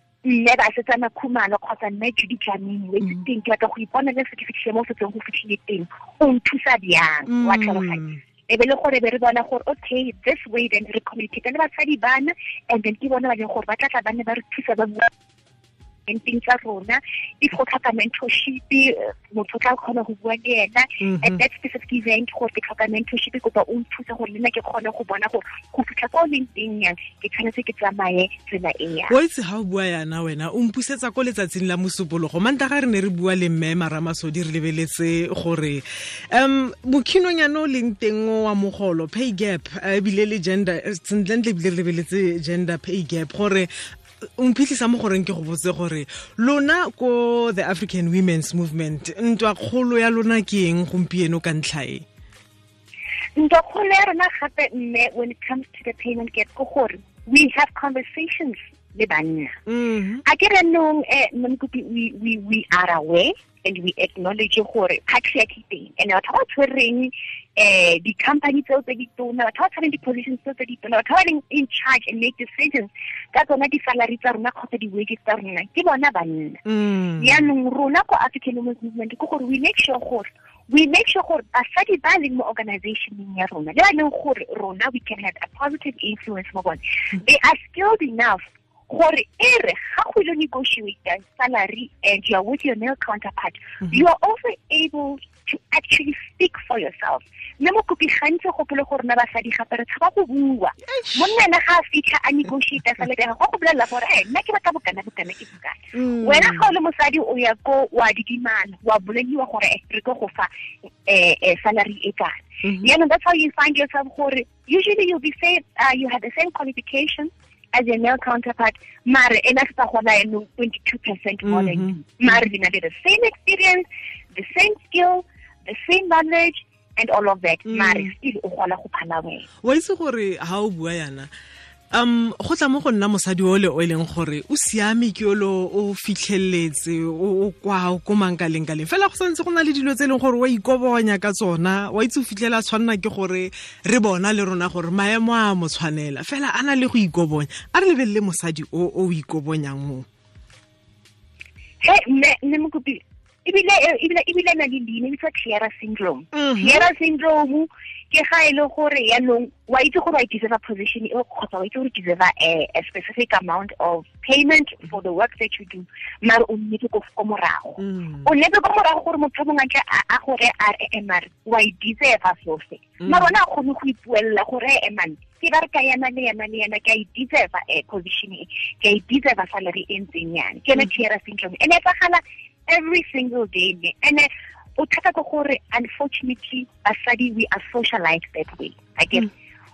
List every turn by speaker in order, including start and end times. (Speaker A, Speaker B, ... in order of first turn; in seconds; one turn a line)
Speaker A: 0.2-15.1
Speaker B: 7.3-8.2
Speaker A: 16.1-29.2
Speaker B: 21.0-21.4
Speaker B: 29.1-43.7
Speaker B: 44.4-52.0
Speaker A: 53.4-59.6
Speaker B: 59.7-60.2
Speaker A: 60.2-76.6
Speaker B: 76.7-77.4
Speaker A: 77.2-110.5
Speaker B: 100.9-101.4
Speaker B: 105.9-106.7
Speaker A: 111.0-129.5
Speaker B: 112.6-112.9
Speaker B: 121.4-122.0
Speaker B: 127.7-128.1
Speaker B: 129.6-131.3
Speaker B: 131.9-150.1
Speaker A: 151.8-189.3
Speaker B: 156.3-156.9
Speaker B: 167.8-168.3
Speaker B: 173.0-173.3